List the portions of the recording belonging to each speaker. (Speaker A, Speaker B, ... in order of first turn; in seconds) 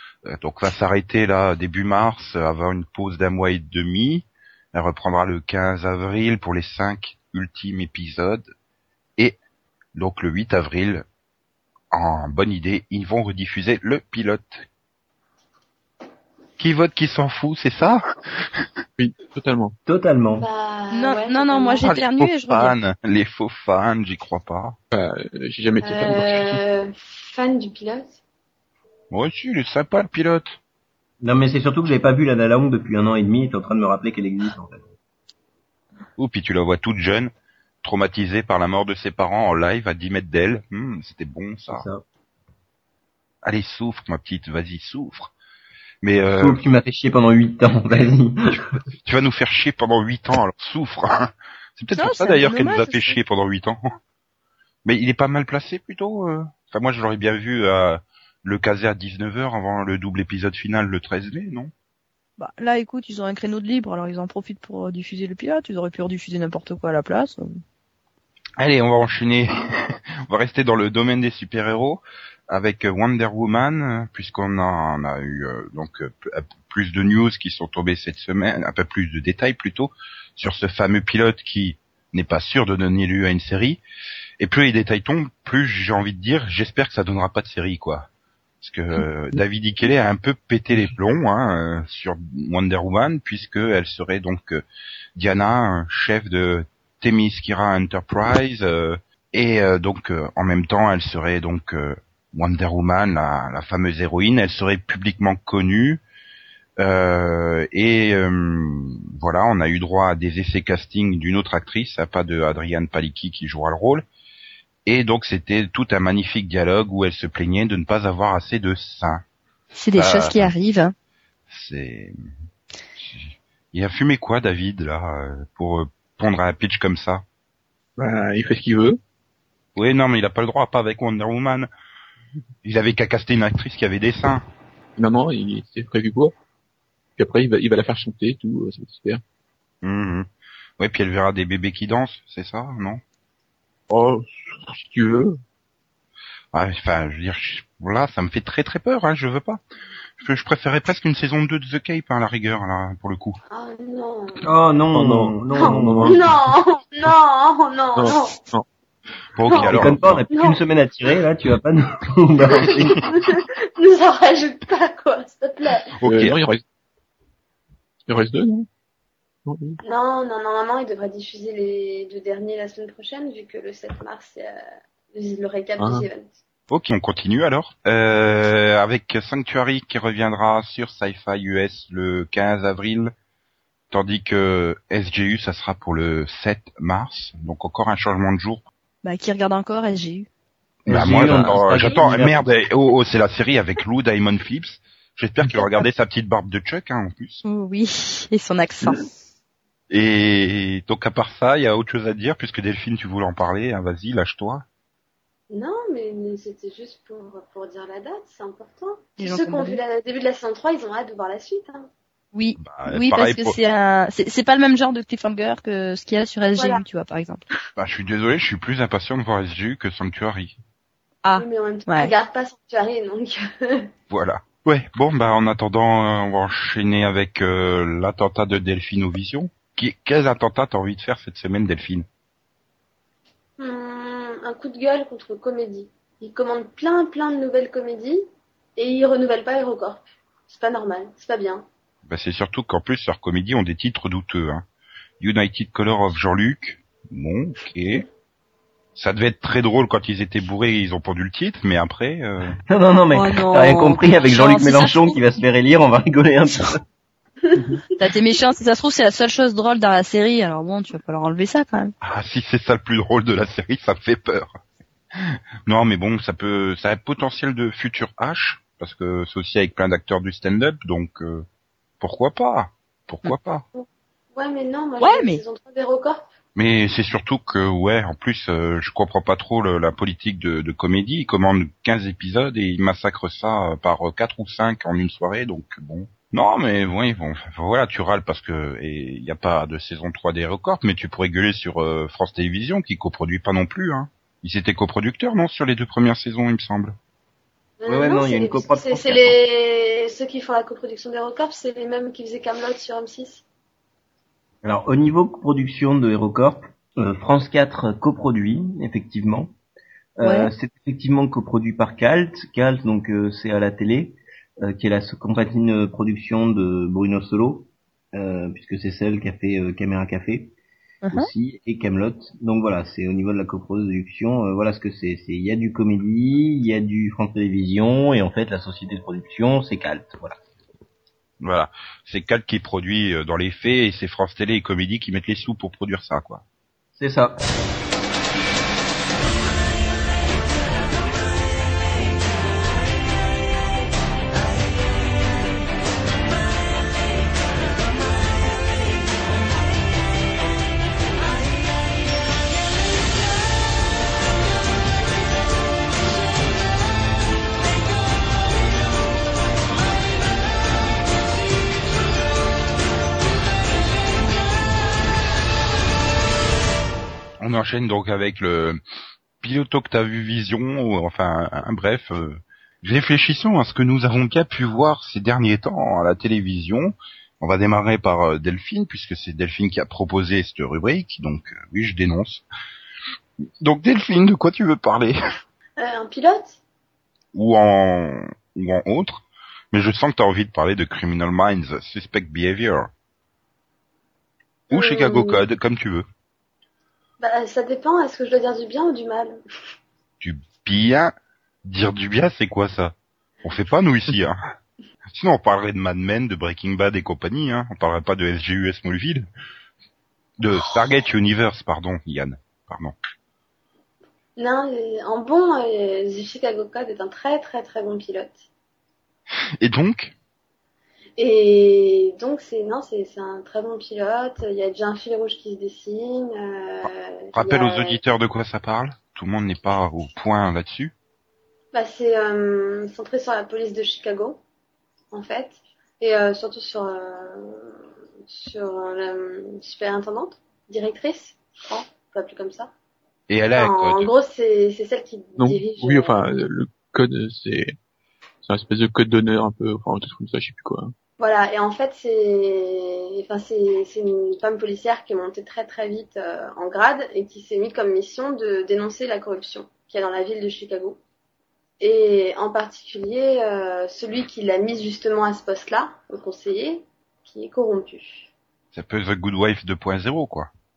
Speaker A: 0.2-8.5, 9.9-11.1, 11.9-14.7, 16.6-18.7, 21.8-24.8, 29.1-30.6, 36.2-37.3, 37.8-41.8, 43.4-45.3, 46.0-46.6, 49.0-54.0, 54.8-61.7, 68.6-83.8, 84.4-88.1, 88.6-94.6, 95.2-106.0, 106.8-114.0, 114.8-119.2, 120.0-120.5, 121.5-122.3, 123.0-127.2, 129.8-131.7, 132.6-134.4, 139.8-140.3, 140.8-143.0, 146.5-149.6, 150.2-153.4, 155.0-155.3, 159.3-160.2, 165.9-166.4, 176.7-183.1, 183.9-188.6, 190.9-197.4, 199.9-204.6, 212.6-213.5, 217.8-220.6, 224.1-232.1, 242.1-244.7, 245.2-248.0, 248.9-252.6, 262.0-264.6, 265.1-271.4, 272.0-273.6, 276.5-296.9, 331.4-336.4, 367.4-368.8, 369.4-382.4, 383.6-385.2, 387.3-392.9, 394.7-396.0, 400.2-401.1, 401.6-404.4, 405.1-409.3, 410.4-412.9, 419.6-420.1, 427.3-430.9, 443.3-444.1, 468.7-470.5
Speaker B: 19.0-19.7, 24.9-26.6, 128.0-129.0, 135.0-136.3, 137.2-139.2, 143.9-145.4, 157.9-158.6, 166.0-166.6, 168.1-168.7, 169.4-169.8, 175.8-176.1, 445.4-447.8, 448.4-450.9
Speaker C: 19.9-20.5, 31.2-34.8, 41.7-42.0, 46.4-48.8, 154.4-156.4, 159.6-163.1, 190.8-192.6, 252.7-256.8, 297.9-299.4, 304.6-309.5, 310.2-320.5, 321.1-330.4, 337.0-337.4
Speaker D: 20.4-21.9, 25.8-28.2, 153.5-154.4, 155.5-158.3, 159.5-159.7, 160.3-160.6, 162.5-165.9, 169.8-174.6, 175.1-176.3, 205.5-211.9, 216.6-216.8, 221.3-223.9, 233.6-241.7, 257.5-257.8, 273.7-276.3, 297.8-303.4, 385.8-386.6, 394.7-395.4, 397.2-399.4, 414.4-418.4, 421.2-428.0, 431.7-434.4, 435.1-442.7, 443.6-446.2, 451.2-461.0, 461.8-468.3
Speaker E: 20.9-22.8, 51.9-53.2, 62.4-67.6, 119.8-120.9, 189.0-190.3, 197.4-199.1, 209.2-209.8, 212.3-217.4, 221.2-222.1, 253.1-255.2, 258.0-261.9, 275.0-275.4, 310.2-310.5